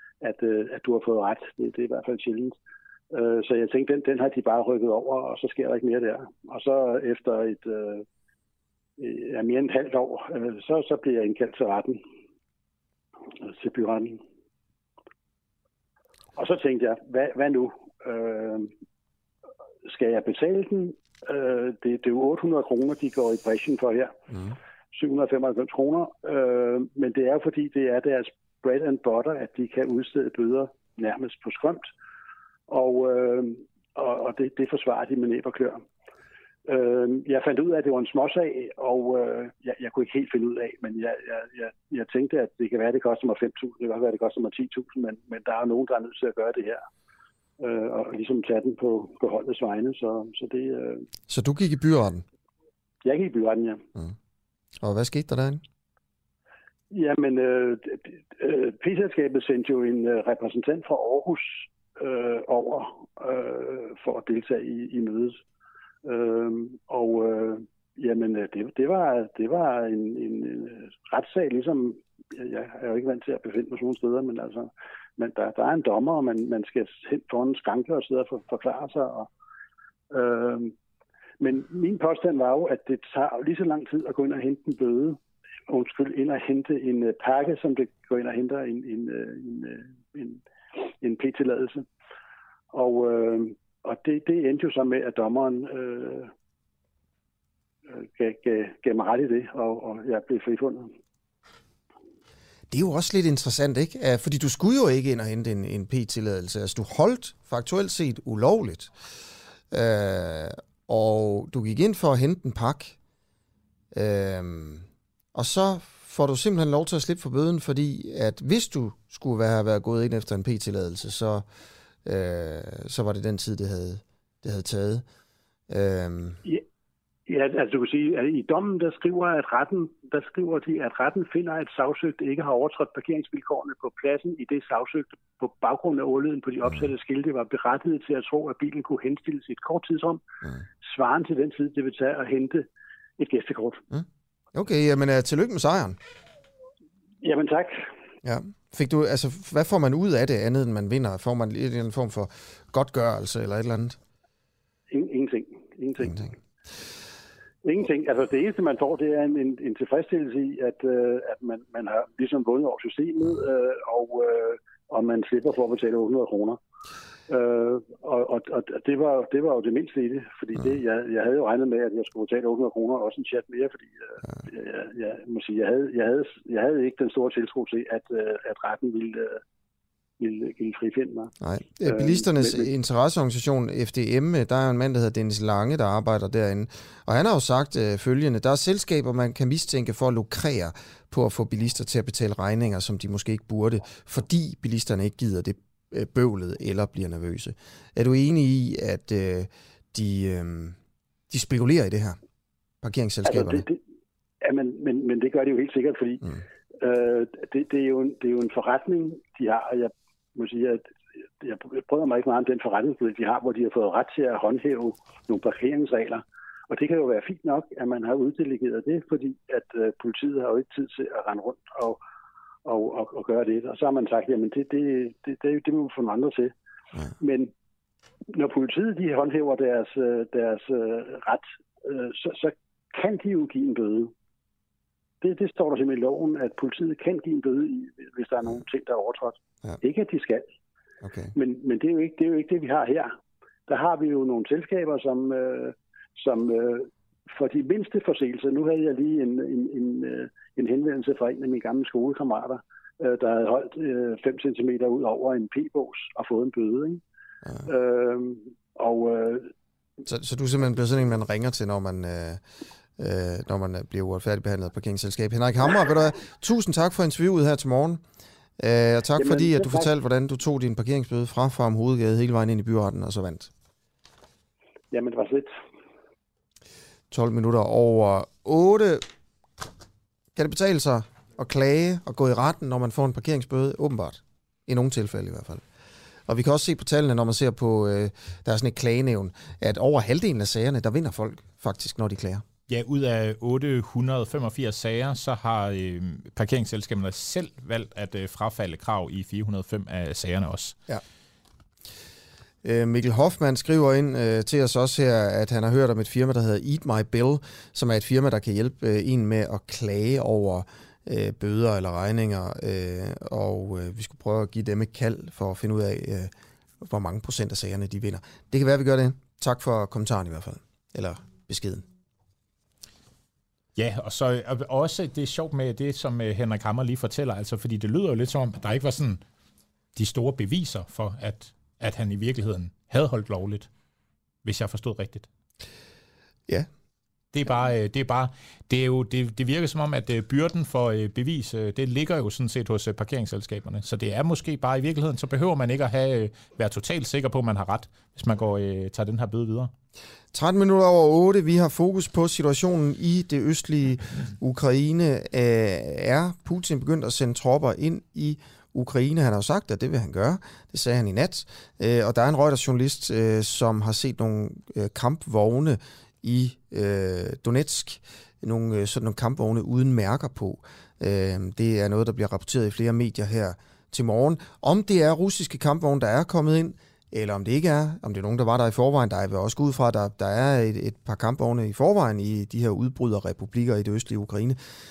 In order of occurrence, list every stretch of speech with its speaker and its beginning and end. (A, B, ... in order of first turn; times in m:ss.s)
0:00.2-0:02.6 A
0:03.1-0:08.0 A
0:09.0-0:12.0 A
0:13.4-0:14.2 A
0:16.4-0:18.7 A
0:19.9-0:24.2 A
0:24.9-0:31.9 A
0:32.7-0:35.8 A
0:36.7-0:46.8 A
0:47.6-0:51.1 A
0:51.3-0:52.2 B
0:53.0-0:53.8 A
0:54.8-0:55.6 B
0:56.9-1:05.4 A
1:06.0-1:19.3 A
1:20.1-1:20.7 A
1:21.4-1:31.9 A
1:32.7-1:36.3 A
1:37.9-1:41.0 A
1:42.7-1:48.9 B
1:49.7-1:53.0 B
1:53.9-2:01.4 B
2:02.1-2:05.0 B
2:05.7-2:06.4 B
2:07.3-2:20.2 A
2:20.8-2:22.7 A
2:23.2-2:23.8 A
2:23.9-2:26.0 B
2:27.2-2:27.8 A
2:28.2-2:34.0 B
2:34.9-2:36.3 A
2:36.0-2:36.3 B
2:37.6-2:46.6 A
2:47.3-2:59.4 A
3:00.2-3:01.3 A
3:01.4-3:20.8 B
3:01.8-3:02.7 A
3:21.3-3:22.2 B
3:22.8-3:23.6 B
3:23.2-3:23.8 A
3:24.4-3:26.3 A
3:26.8-3:30.9 A
3:31.4-3:42.0 A
3:42.6-3:46.5 A
3:47.2-3:47.5 A
3:48.3-3:54.1 A
3:55.2-4:00.5 A
4:01.0-4:01.3 B
4:01.4-4:03.2 A
4:03.7-4:17.0 A
4:17.7-4:19.5 A
4:20.1-4:22.4 B
4:23.0-4:28.0 B
4:28.6-4:33.5 B
4:29.2-4:29.9 A
4:34.9-4:35.5 A
4:37.1-4:39.0 B
4:40.4-4:45.6 B
4:46.3-4:52.4 B
4:52.7-5:00.8 C
5:02.6-5:21.9 B
5:23.8-5:29.2 C
5:30.0-5:33.7 C
5:34.4-5:35.3 C
5:37.3-5:49.7 C
5:50.3-6:24.6 B